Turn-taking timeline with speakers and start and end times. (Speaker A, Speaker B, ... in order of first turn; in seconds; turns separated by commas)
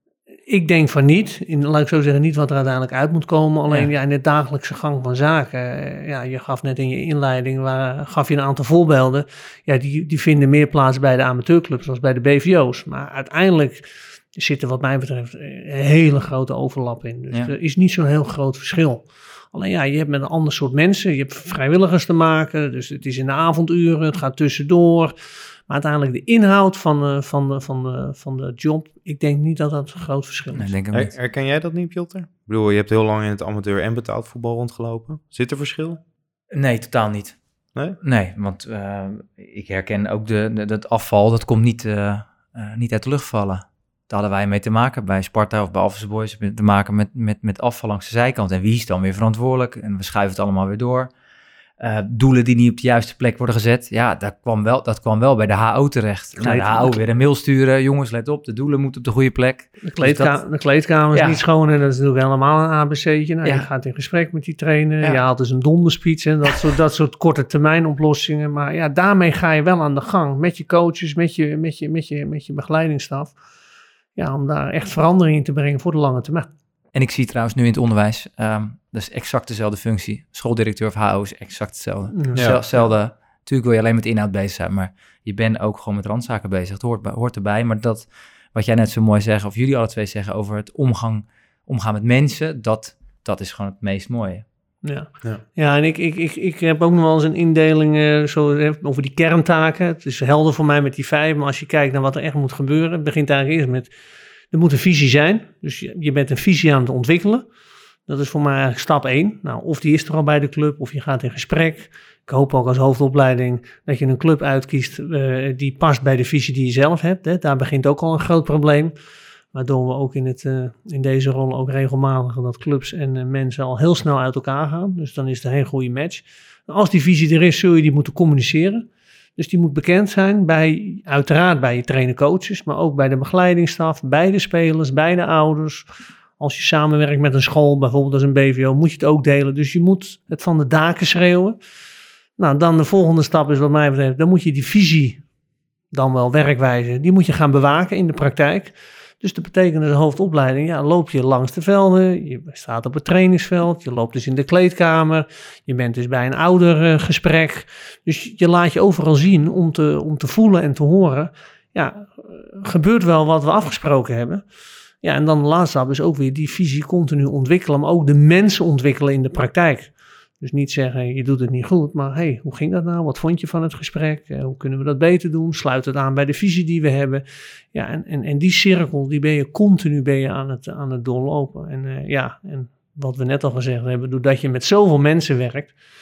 Speaker A: 0.5-25.1, Speaker A: 25.7-30.8, Speaker B: 30.5-31.1, Speaker C: 30.9-36.0, Speaker B: 36.5-37.4, Speaker B: 38.0-51.1, Speaker B: 51.8-60.4, Speaker A: 56.4-57.0, Speaker A: 59.9-73.3, Speaker B: 61.1-61.4, Speaker A: 74.2-76.5, Speaker B: 76.9-94.4, Speaker A: 82.2-82.9, Speaker C: 82.3-82.6, Speaker A: 94.8-103.9, Speaker A: 104.5-107.5, Speaker A: 108.1-118.9, Speaker A: 119.5-128.8, Speaker A: 129.4-135.9, Speaker A: 136.4-141.6, Speaker A: 142.4-145.2, Speaker A: 145.9-164.4, Speaker A: 165.0-185.7